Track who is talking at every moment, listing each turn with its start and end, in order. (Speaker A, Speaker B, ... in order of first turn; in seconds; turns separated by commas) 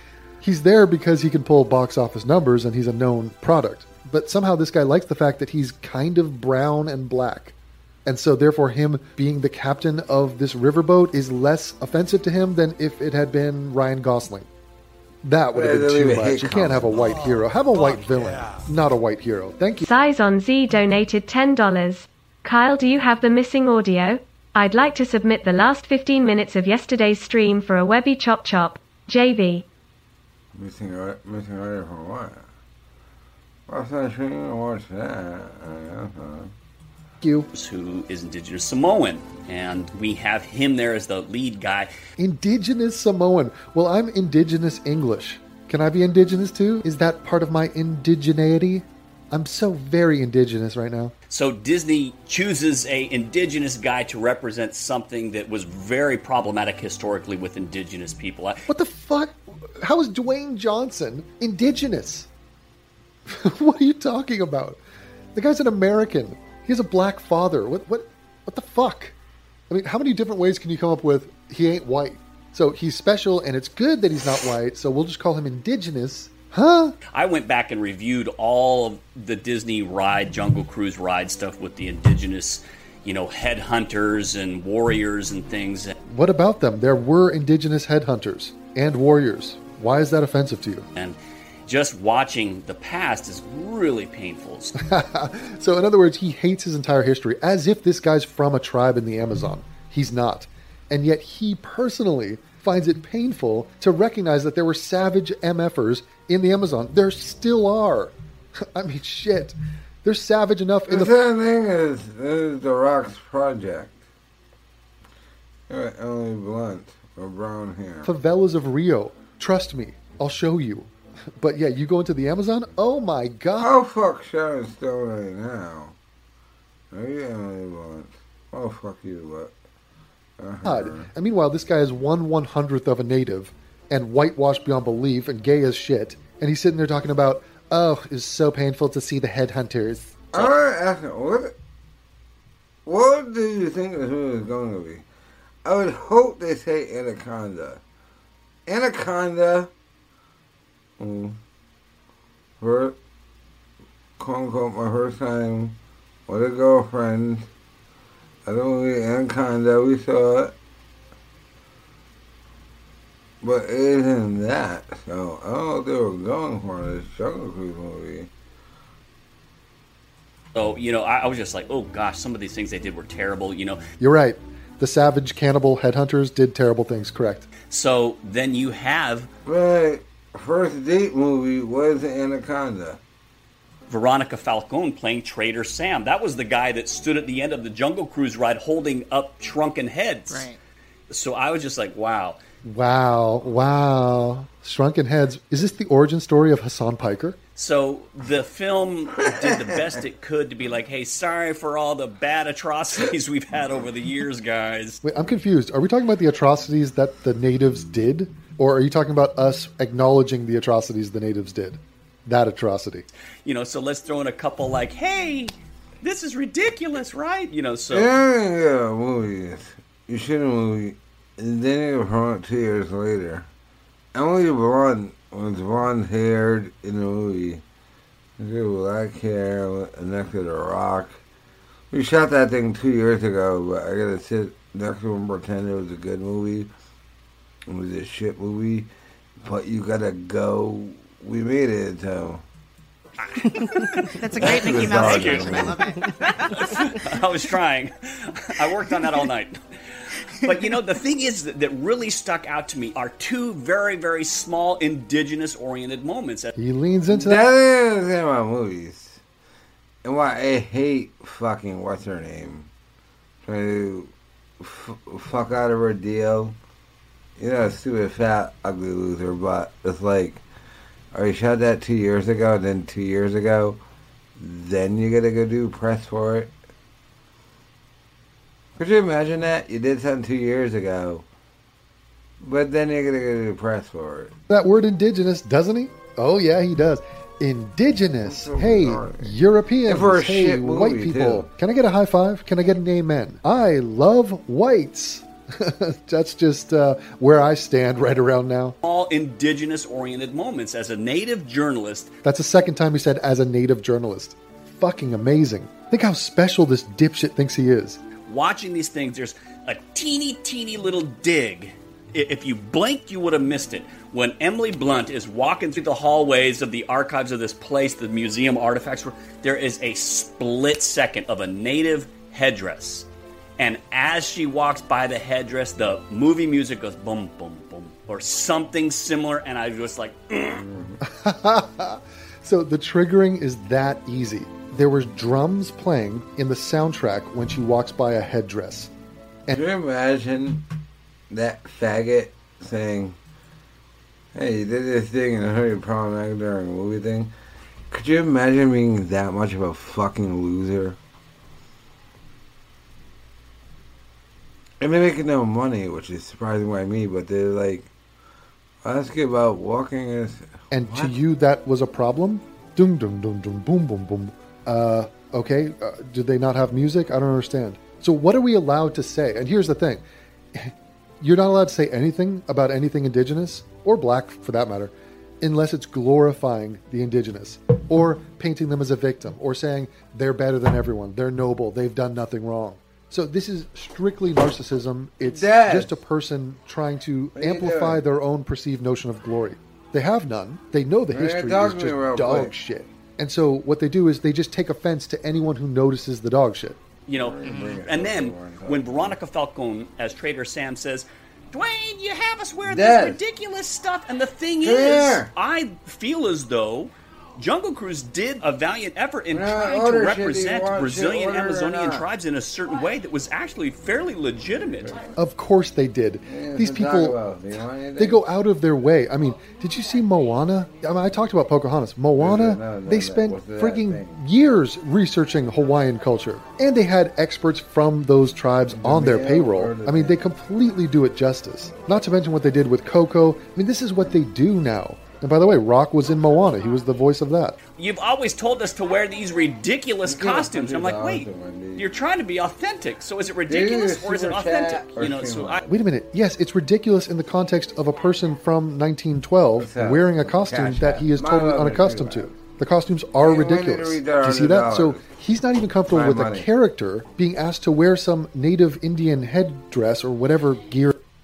Speaker A: 0.4-14.5, Speaker A: 15.2-19.9, Speaker B: 15.5-16.9, Speaker C: 19.8-29.6, Speaker B: 30.5-32.5, Speaker B: 33.7-36.5, Speaker A: 37.2-37.5, Speaker D: 37.5-41.9, Speaker A: 42.2-51.1, Speaker D: 51.3-58.6, Speaker A: 58.7-62.3, Speaker A: 63.3-64.8, Speaker A: 65.3-69.1, Speaker A: 69.7-77.0, Speaker D: 77.1-85.9, Speaker A: 86.0-90.9, Speaker D: 91.0-94.8, Speaker A: 94.8-111.1, Speaker B: 110.9-114.0, Speaker B: 115.7-118.1, Speaker A: 118.0-123.7, Speaker B: 123.6-125.9, Speaker B: 126.9-129.5, Speaker B: 130.4-131.1, Speaker A: 130.6-140.3, Speaker B: 140.3-141.5, Speaker B: 142.8-145.0, Speaker B: 145.6-147.8, Speaker B: 148.7-149.7, Speaker B: 151.0-151.4, Speaker B: 152.6-152.9, Speaker B: 154.2-157.5, Speaker B: 158.4-160.5, Speaker B: 163.4-168.3, Speaker D: 170.5-173.8, Speaker A: 174.0-177.5, Speaker D: 177.7-179.3, Speaker B: 179.4-183.0, Speaker D: 183.9-190.5, Speaker E: 190.3-190.6, Speaker D: 191.1-192.4, Speaker A: 192.6-197.4, Speaker D: 197.6-205.0, Speaker B: 199.3-199.7, Speaker A: 205.0-213.1, Speaker D: 213.4-218.1, Speaker B: 217.9-223.5, Speaker B: 224.1-227.6, Speaker B: 228.4-231.2, Speaker B: 231.9-236.7, Speaker B: 237.7-238.9, Speaker B: 239.4-242.4, Speaker E: 243.5-246.6, Speaker B: 244.4-245.9, Speaker D: 244.9-245.8, Speaker D: 246.4-249.6, Speaker D: 250.4-256.5, Speaker A: 256.6-257.5, Speaker B: 257.1-259.2, Speaker B: 260.0-262.7, Speaker B: 263.4-266.6, Speaker B: 267.4-270.4, Speaker B: 271.1-273.8, Speaker B: 274.4-276.5, Speaker B: 278.8-281.2, Speaker B: 282.4-284.4, Speaker A: 284.5-298.8, Speaker B: 288.2-289.3, Speaker B: 289.9-291.5, Speaker D: 298.8-302.1, Speaker A: 302.2-308.0, Speaker D: 308.2-323.1, Speaker D: 323.6-330.6, Speaker B: 330.4-331.0, Speaker A: 331.1-338.9, Speaker B: 339.5-340.6, Speaker B: 341.3-343.2, Speaker B: 344.3-347.3, Speaker B: 347.9-351.0, Speaker B: 354.8-357.9, Speaker B: 358.8-361.1, Speaker A: 360.7-370.0, Speaker A: 370.5-396.8, Speaker B: 385.2-385.9, Speaker B: 387.4-388.0, Speaker B: 391.1-392.5, Speaker D: 397.1-415.0, Speaker B: 397.1-399.2, Speaker B: 402.6-403.2, Speaker B: 404.6-405.3, Speaker B: 409.3-412.1, Speaker B: 414.4-415.1, Speaker A: 415.1-417.2, Speaker B: 416.3-418.2, Speaker A: 418.0-437.6, Speaker B: 422.2-424.2, Speaker B: 428.7-430.2, Speaker D: 437.8-445.6, Speaker B: 440.0-441.9, Speaker B: 443.5-445.8, Speaker A: 445.7-461.0, Speaker B: 449.6-452.4, Speaker B: 453.2-455.1, Speaker B: 455.9-456.5